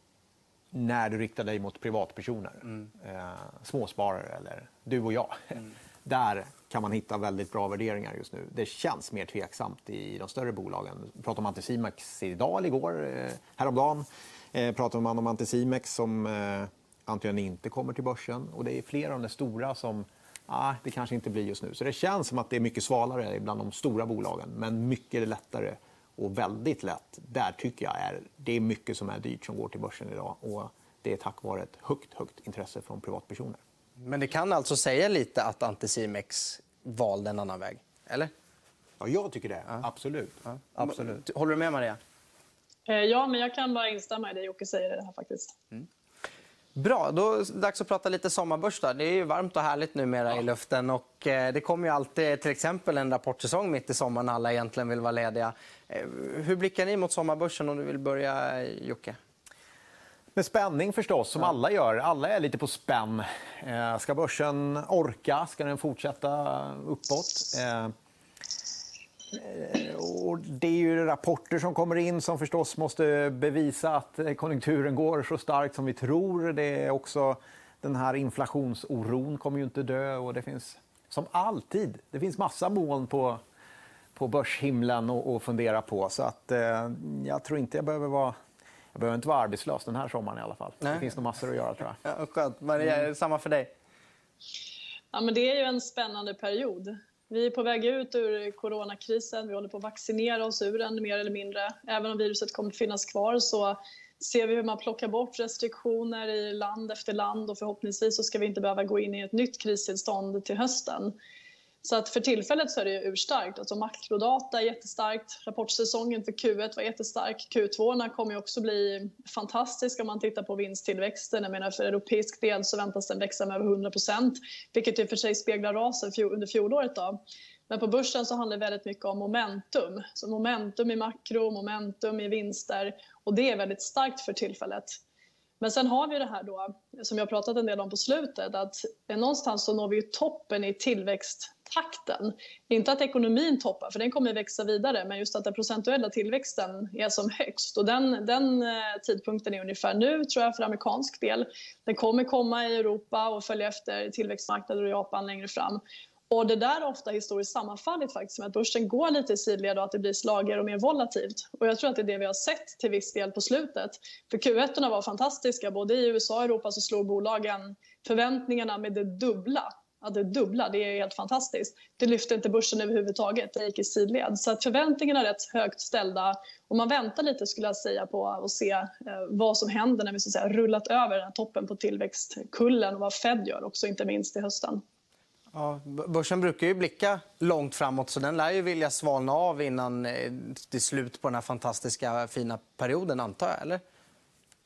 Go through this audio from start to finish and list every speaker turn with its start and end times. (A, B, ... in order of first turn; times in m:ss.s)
0:00.7-0:33.6 A
0:34.0-0:38.3 B
0:39.0-0:41.2 A
0:40.8-0:42.0 B
0:42.9-0:45.6 C
0:46.8-0:59.2 B
1:00.4-1:07.9 A
1:09.3-1:23.4 A
1:24.2-1:28.4 A
1:28.9-1:32.0 A
1:32.0-1:33.7 B
1:35.1-1:51.2 C
1:51.8-2:15.0 C
2:15.6-3:04.8 C
3:05.5-3:13.8 B